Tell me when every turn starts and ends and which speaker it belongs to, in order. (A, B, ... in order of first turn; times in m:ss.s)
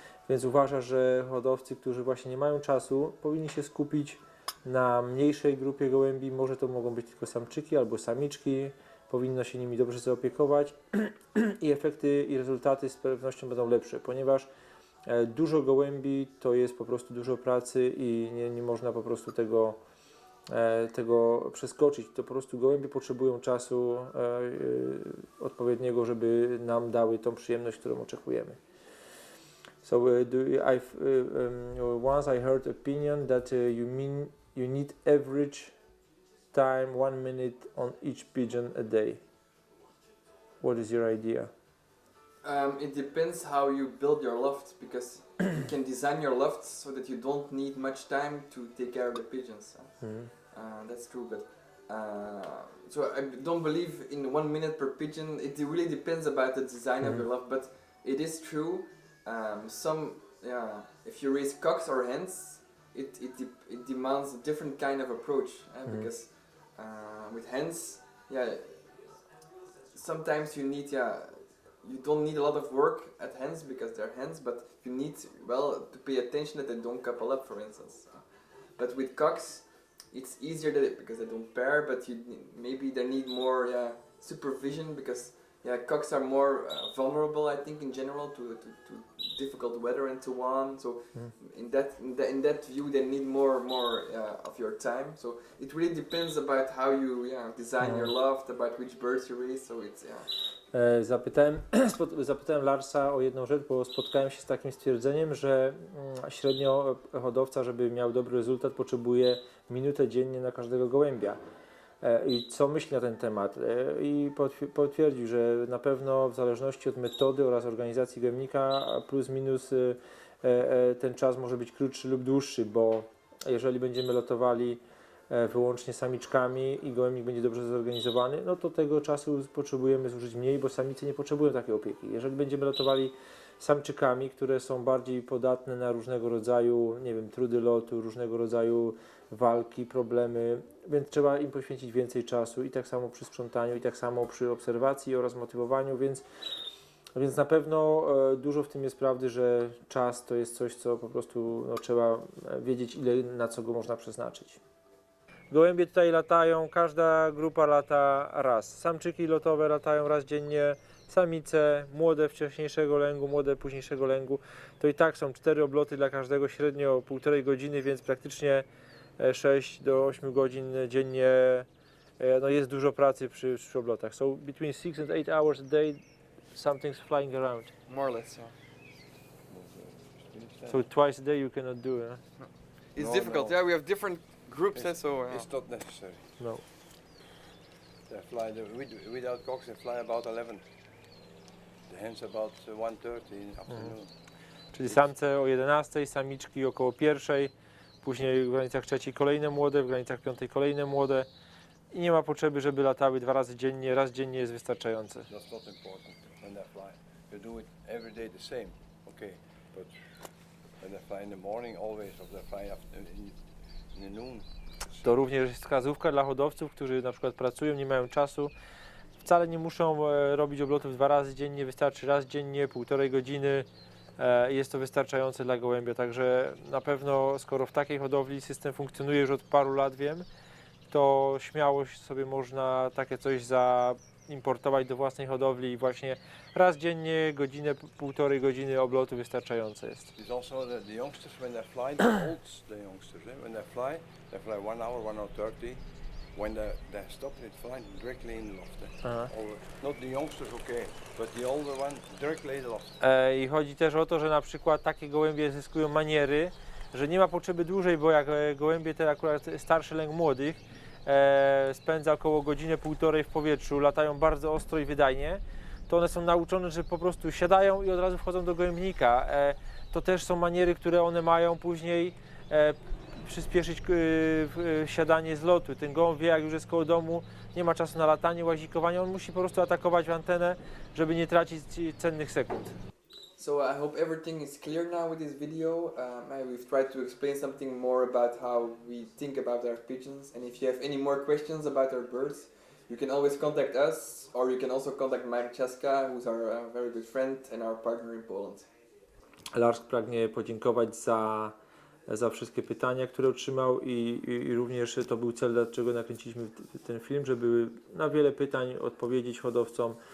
0:00.3-0:14.5 A
0:15.0-0:19.8 A
0:20.5-0:28.6 A
0:29.8-0:35.8 A
0:36.5-0:39.2 A
0:40.6-0:41.5 A
0:42.4-1:09.2 B
0:50.0-0:50.3 A
1:09.9-1:40.3 B
1:37.8-1:38.1 A
1:40.7-1:51.4 A
1:52.0-2:26.2 A
2:27.2-2:34.6 A
2:35.5-2:48.6 A
2:49.2-2:51.7 A
2:52.2-2:57.7 A
2:57.9-2:58.6 B
2:59.5-3:00.8 C
3:00.7-3:02.2 A
3:02.4-3:05.5 B
3:03.0-3:03.7 C
3:04.8-3:06.4 C
3:06.4-3:06.7 A
3:08.1-3:10.6 C
3:11.9-3:14.1 C
3:14.7-3:21.3 A
3:14.8-3:15.1 C
3:21.9-3:25.3 A
3:25.3-3:35.1 C
3:35.0-3:38.5 A
3:39.2-3:50.3 A
3:50.9-4:00.1 A
4:00.2-4:13.0 C
4:09.0-4:09.3 A
4:13.0-4:42.8 A
4:43.4-4:58.7 B
4:59.5-5:01.5 A
5:02.1-5:10.0 A